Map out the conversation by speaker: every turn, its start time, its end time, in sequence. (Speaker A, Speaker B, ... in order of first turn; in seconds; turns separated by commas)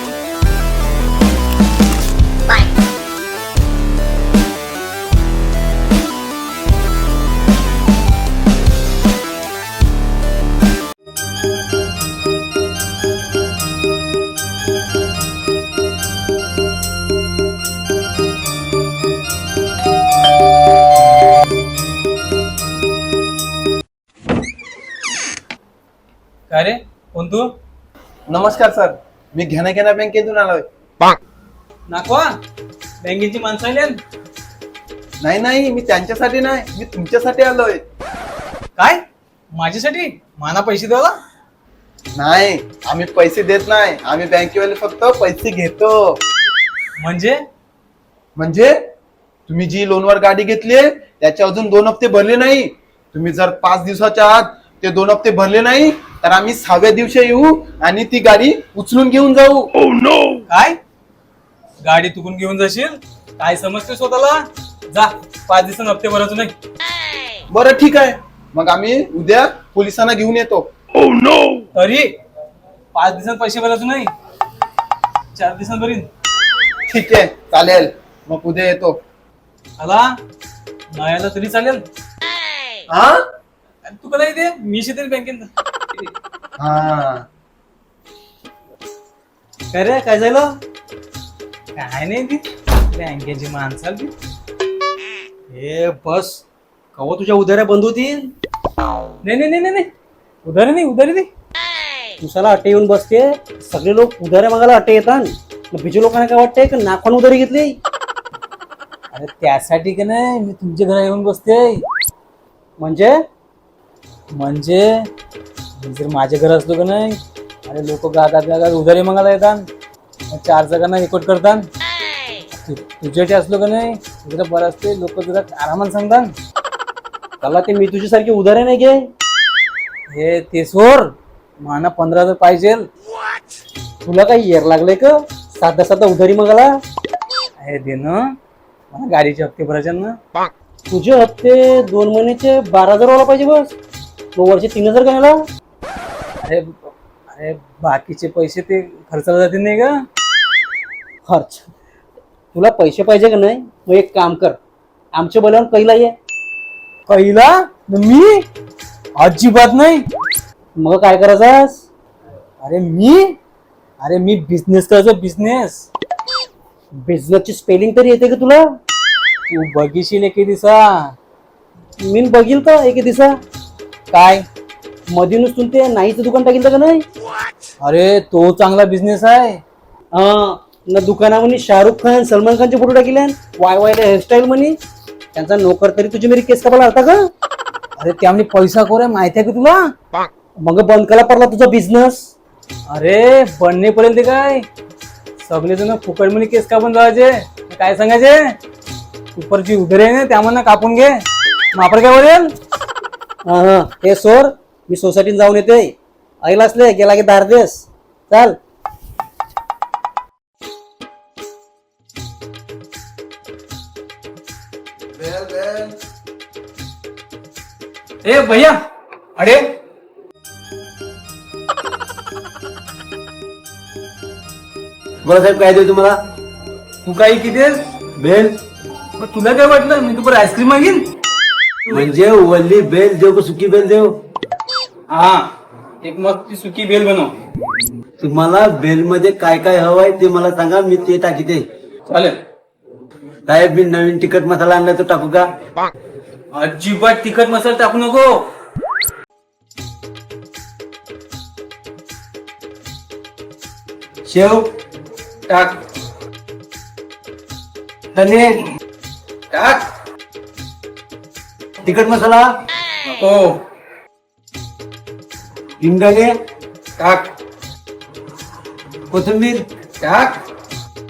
Speaker A: 26.5-27.5, Speaker B: 28.3-30.6, Speaker A: 31.9-32.3, Speaker A: 33.0-34.0, Speaker B: 35.2-37.8, Speaker A: 38.8-39.0, Speaker A: 39.5-41.1, Speaker B: 42.1-46.2, Speaker A: 47.0-47.4, Speaker B: 48.4-48.7, Speaker B: 49.5-59.7, Speaker A: 60.5-60.8, Speaker A: 61.8-66.5, Speaker B: 67.5-70.7, Speaker A: 71.7-72.1, Speaker A: 72.9-74.1, Speaker A: 75.3-76.1, Speaker B: 76.9-79.0, Speaker A: 79.8-80.1, Speaker A: 80.9-81.8, Speaker B: 82.9-83.2, Speaker A: 83.9-85.5, Speaker B: 86.6-87.2, Speaker C: 89.7-90.6, Speaker A: 91.7-94.1, Speaker C: 95.5-96.4, Speaker C: 96.9-98.3, Speaker A: 99.2-99.9, Speaker A: 100.4-101.3, Speaker C: 102.2-107.8, Speaker A: 109.1-111.8, Speaker C: 112.8-113.1, Speaker A: 114.3-114.9, Speaker A: 115.8-119.6, Speaker A: 120.3-121.7, Speaker A: 122.5-126.3, Speaker C: 127.4-129.1, Speaker A: 130.1-132.8, Speaker C: 134.0-136.8, Speaker A: 137.6-138.2, Speaker A: 138.9-140.2, Speaker C: 140.9-143.7, Speaker C: 144.3-145.4, Speaker A: 146.4-149.9, Speaker C: 151.2-151.7, Speaker C: 152.5-154.6, Speaker C: 155.1-156.1, Speaker A: 157.1-158.4, Speaker A: 159.2-160.0, Speaker C: 160.8-161.8, Speaker A: 162.6-163.3, Speaker A: 164.0-165.9, Speaker C: 167.0-168.6, Speaker A: 169.5-171.1, Speaker C: 172.0-173.4, Speaker A: 174.1-174.4, Speaker C: 175.1-177.0, Speaker A: 177.8-179.6, Speaker C: 180.1-184.8, Speaker C: 185.3-187.3, Speaker A: 188.0-189.8, Speaker C: 190.6-192.3, Speaker A: 192.9-194.6, Speaker A: 195.4-198.4, Speaker A: 199.3-201.2, Speaker A: 201.7-202.5, Speaker C: 203.4-208.6, Speaker B: 215.2-215.9, Speaker A: 218.2-218.8, Speaker A: 219.4-219.8, Speaker D: 225.2-226.2, Speaker A: 227.0-227.8, Speaker D: 228.2-228.6, Speaker A: 229.2-231.1, Speaker D: 231.9-234.2, Speaker A: 235.1-235.5, Speaker A: 236.0-237.3, Speaker D: 238.2-241.7, Speaker A: 242.1-242.4, Speaker D: 243.5-245.5, Speaker A: 246.5-248.5, Speaker D: 254.2-254.7, Speaker A: 255.5-255.8, Speaker D: 258.1-258.7, Speaker A: 259.5-259.8, Speaker D: 261.8-262.5, Speaker A: 263.1-263.6, Speaker D: 265.8-266.3, Speaker A: 267.0-267.2, Speaker D: 269.1-269.6, Speaker A: 270.0-270.3